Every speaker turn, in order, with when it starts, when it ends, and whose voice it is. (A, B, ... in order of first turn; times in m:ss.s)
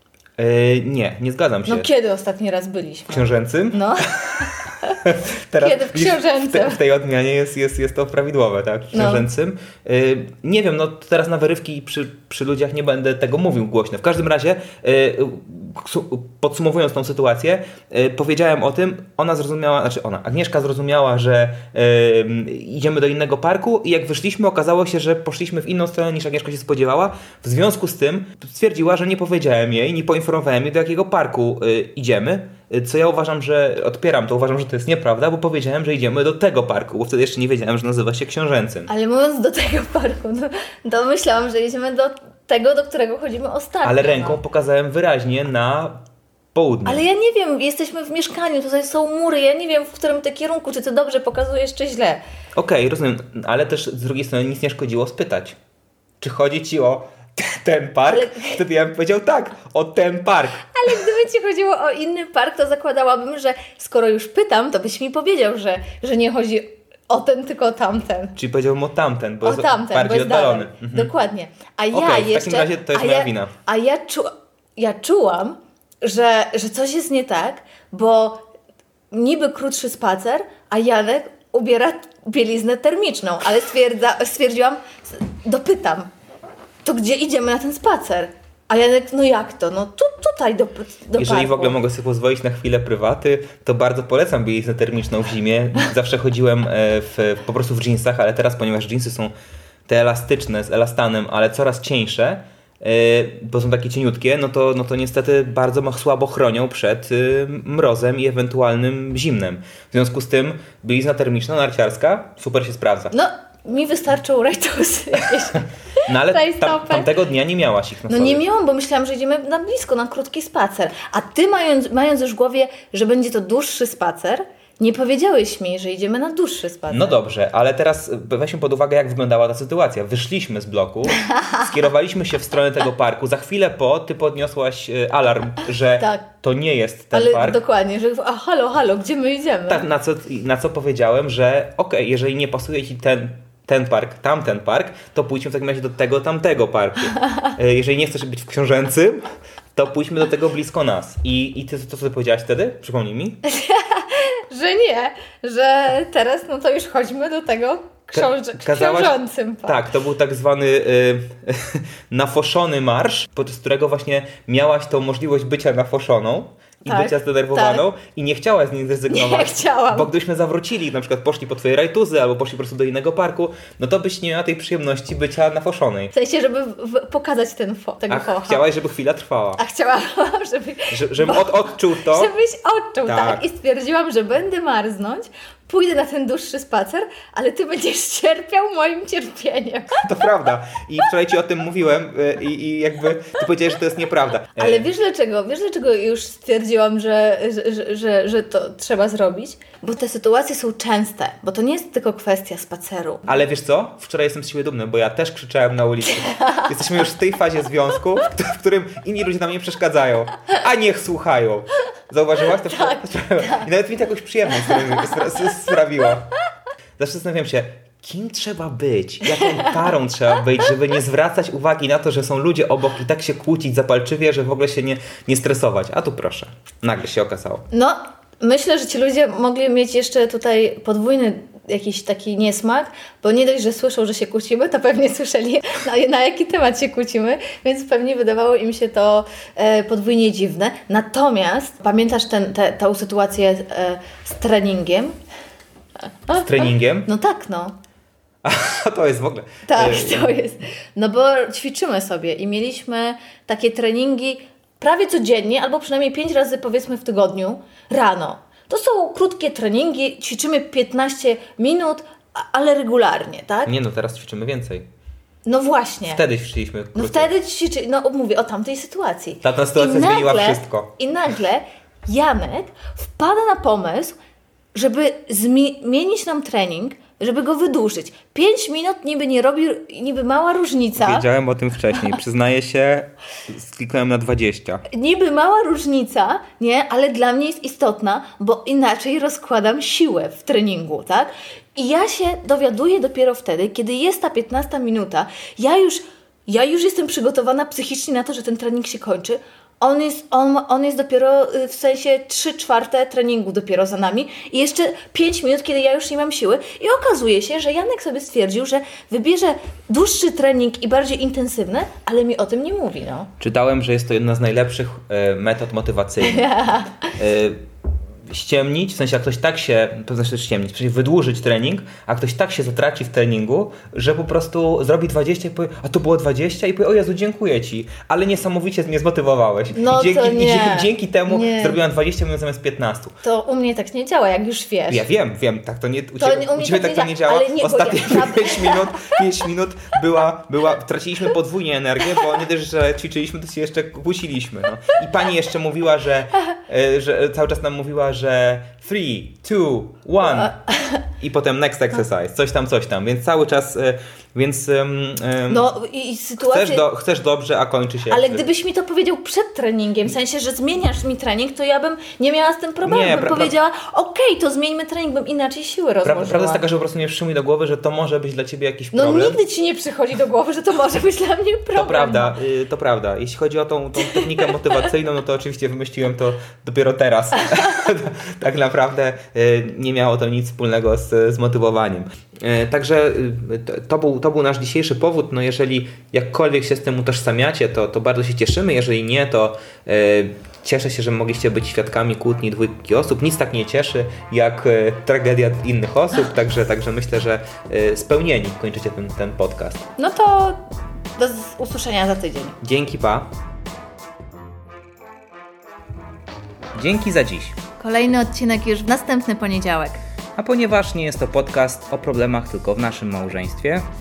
0:00.4-0:01.9 A
0:01.7-0:05.0 B
0:03.1-0:04.5 A
0:05.0-0:38.9 A
0:05.6-0:06.8 B
0:08.9-0:09.3 B
0:38.9-0:44.4 B
0:43.8-0:46.0 A
0:46.5-0:47.0 A
0:46.8-0:52.2 B
0:52.6-0:55.6 A
0:56.2-1:00.7 A
0:58.1-0:58.6 B
1:00.7-1:08.4 B
1:08.4-1:11.1 A
1:09.4-1:18.5 B
1:11.9-1:13.5 A
1:19.1-1:26.1 B
1:26.8-1:31.8 B
1:31.2-1:39.3 A
1:39.9-1:53.1 A
1:53.1-1:57.1 B
1:56.1-1:58.4 A
1:58.1-2:07.2 B
2:06.9-2:17.6 A
2:11.2-2:11.7 B
2:17.1-2:19.8 B
2:19.7-2:29.2 A
2:29.8-2:33.4 A
2:33.5-2:39.8 B
2:38.1-2:56.1 A
2:46.8-2:47.9 B
2:49.1-2:50.1 B
2:56.1-2:58.7 B
2:58.1-2:59.6 A
2:59.6-3:10.0 B
3:00.9-3:02.3 A
3:03.0-3:03.4 A
3:10.0-3:14.9 A
3:14.6-3:23.4 B
3:23.3-3:36.3 A
3:26.1-3:27.0 B
3:32.7-3:33.7 B
3:34.6-3:35.2 B
3:37.0-3:47.7 A
3:39.4-3:39.7 B
3:47.7-4:05.2 B
4:06.3-4:07.7 B
4:06.3-4:07.1 A
4:08.4-4:10.3 A
4:09.7-4:23.7 B
4:23.6-4:24.9 A
4:25.5-4:26.2 B
4:26.0-4:27.3 A
4:26.9-4:34.2 B
4:29.4-4:30.9 A
4:34.7-4:41.3 B
4:41.0-4:44.8 A
4:44.9-5:13.3 B
5:13.4-5:16.5 A
5:16.2-5:17.1 B
5:17.1-5:17.6 A
5:18.3-5:33.2 A
5:29.7-5:31.8 B
5:33.2-5:35.1 B
5:34.9-5:50.6 A
5:36.2-5:39.2 B
5:50.2-5:51.0 B
5:51.2-5:55.7 A
5:55.5-5:56.8 B
5:56.4-5:58.4 A
5:58.1-6:06.6 B
6:02.8-6:03.5 A
6:06.0-6:09.4 A
6:08.9-6:12.4 B
6:11.7-6:39.9 A
6:14.0-6:14.7 B
6:40.0-6:40.6 B
6:41.2-6:42.6 B
6:42.6-6:43.3 A
6:46.8-6:47.6 A
6:47.8-6:50.0 B
6:50.4-6:53.9 A